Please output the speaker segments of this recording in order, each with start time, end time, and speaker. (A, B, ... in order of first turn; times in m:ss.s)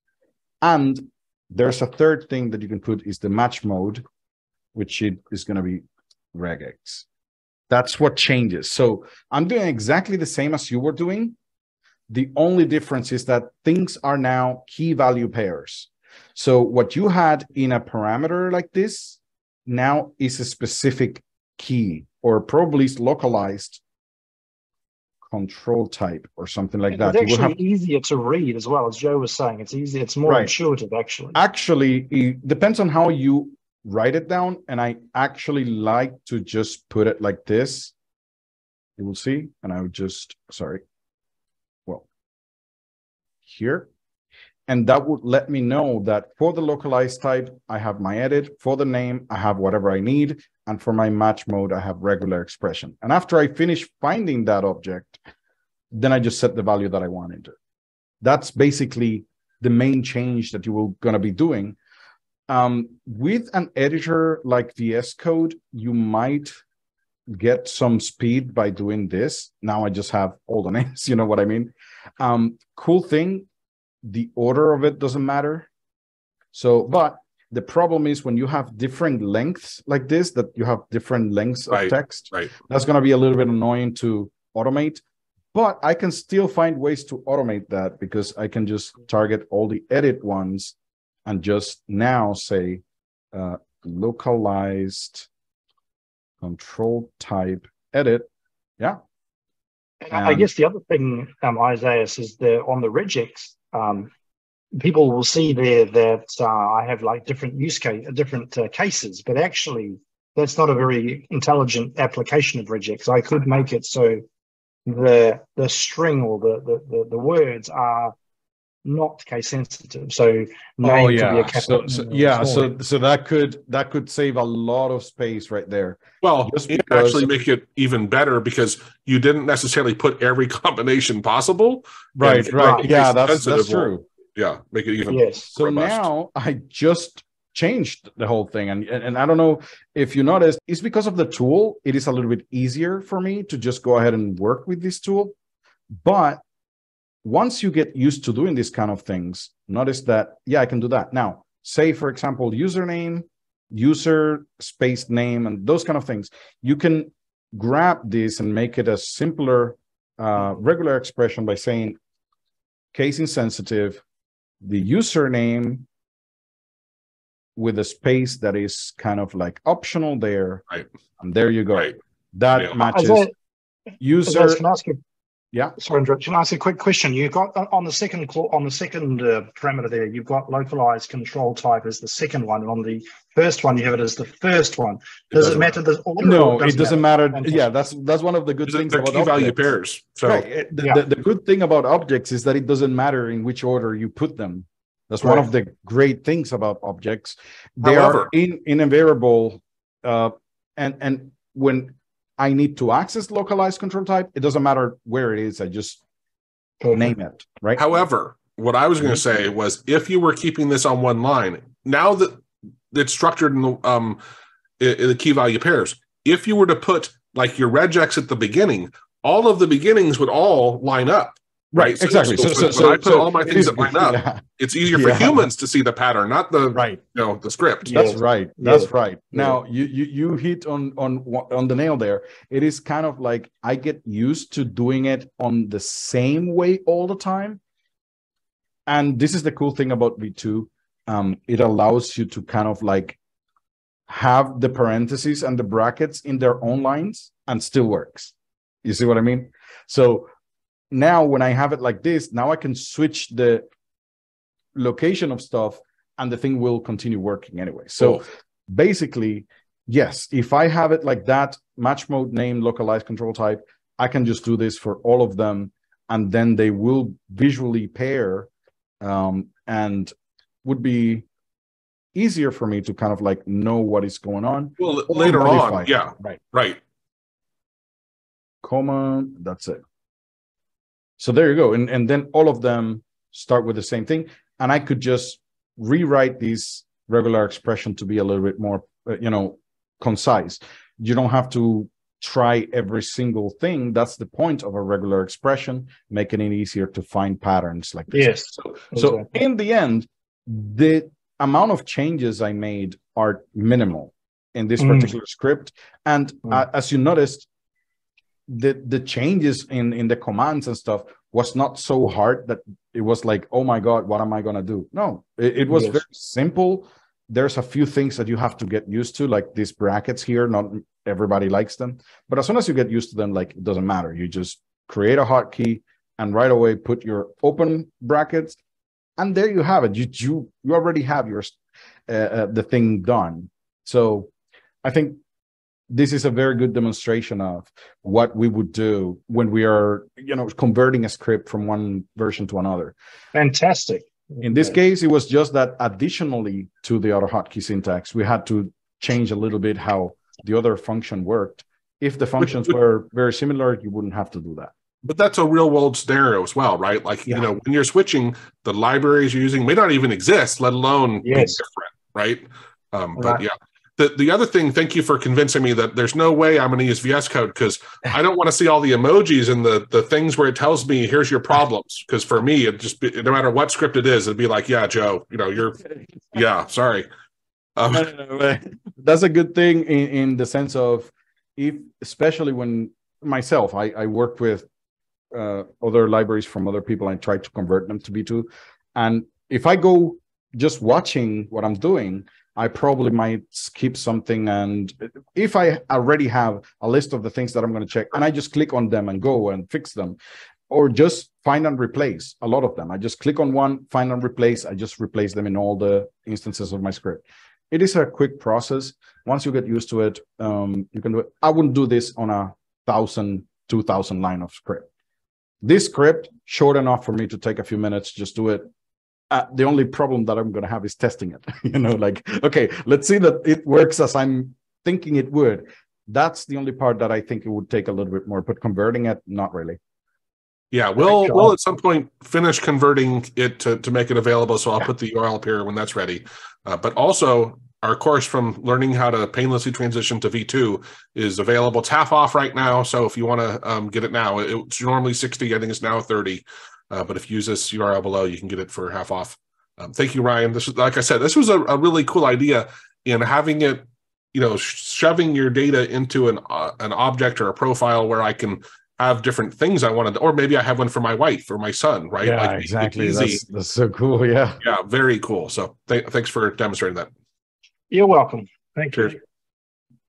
0:00.6-0:04.0 A
0:04.7-0:07.0 A
0:07.7-0:11.4 A
0:12.1-0:23.8 A
0:25.2-0:27.6 A
0:26.9-0:31.4 B
0:30.2-0:30.5 A
0:31.3-0:37.9 A
0:39.0-0:40.8 A
0:43.4-0:43.9 A
0:44.7-0:55.2 A
0:55.9-0:57.6 A
0:58.2-1:01.8 A
1:02.5-1:06.6 A
1:07.3-1:13.5 A
1:14.0-1:15.7 A
1:16.5-1:30.7 A
1:21.7-1:22.5 C
1:31.2-1:35.3 A
1:36.4-1:39.0 A
1:40.0-1:44.1 B
1:40.1-1:40.5 A
1:44.7-1:54.2 B
1:54.8-1:58.1 B
1:58.8-2:02.7 B
2:00.8-2:07.3 A
2:06.2-2:16.0 C
2:12.2-2:14.0 A
2:15.1-2:15.5 B
2:15.5-2:25.3 A
2:25.9-2:26.4 A
2:27.2-2:42.0 A
2:42.9-2:44.0 A
2:44.6-2:45.8 A
2:47.6-2:50.6 A
2:51.2-2:53.3 A
2:52.8-2:53.3 B
2:54.0-2:54.6 A
2:54.2-2:55.0 B
2:55.8-3:07.7 B
3:05.3-3:05.6 C
3:06.2-3:09.7 A
3:08.7-3:10.5 C
3:10.2-3:26.0 A
3:17.8-3:18.3 C
3:26.8-3:27.1 B
3:26.9-3:27.8 A
3:27.8-3:34.2 C
3:34.8-3:47.9 C
3:41.7-3:45.4 A
3:46.7-3:47.0 A
3:47.8-3:49.5 B
3:47.9-3:57.6 A
3:58.9-4:03.2 A
4:04.1-4:10.3 A
4:10.9-4:13.6 A
4:14.7-4:28.5 A
4:29.0-4:30.1 A
4:30.6-4:31.2 A
4:32.1-4:36.4 A
4:34.8-4:36.8 C
4:38.6-4:39.8 A
4:41.2-5:07.5 A
4:58.1-4:59.3 B
5:04.8-5:05.1 B
5:08.5-5:28.6 A
5:15.7-5:16.0 B
5:29.2-5:31.6 A
5:32.1-5:34.3 A
5:34.8-5:35.2 A
5:35.9-5:42.9 A
5:43.3-5:44.7 B
5:44.4-5:54.7 A
5:55.0-6:17.1 C
6:01.2-6:01.6 B
6:03.2-6:03.4 B
6:17.8-6:18.1 C
6:17.9-6:24.7 A
6:25.3-6:40.2 A
6:40.7-6:54.9 A
6:55.6-6:58.7 A
6:59.3-7:09.8 A
7:10.7-7:43.4 C
7:11.0-7:11.5 B
7:42.2-7:44.6 A
7:44.6-7:47.1 C
7:47.9-7:49.2 B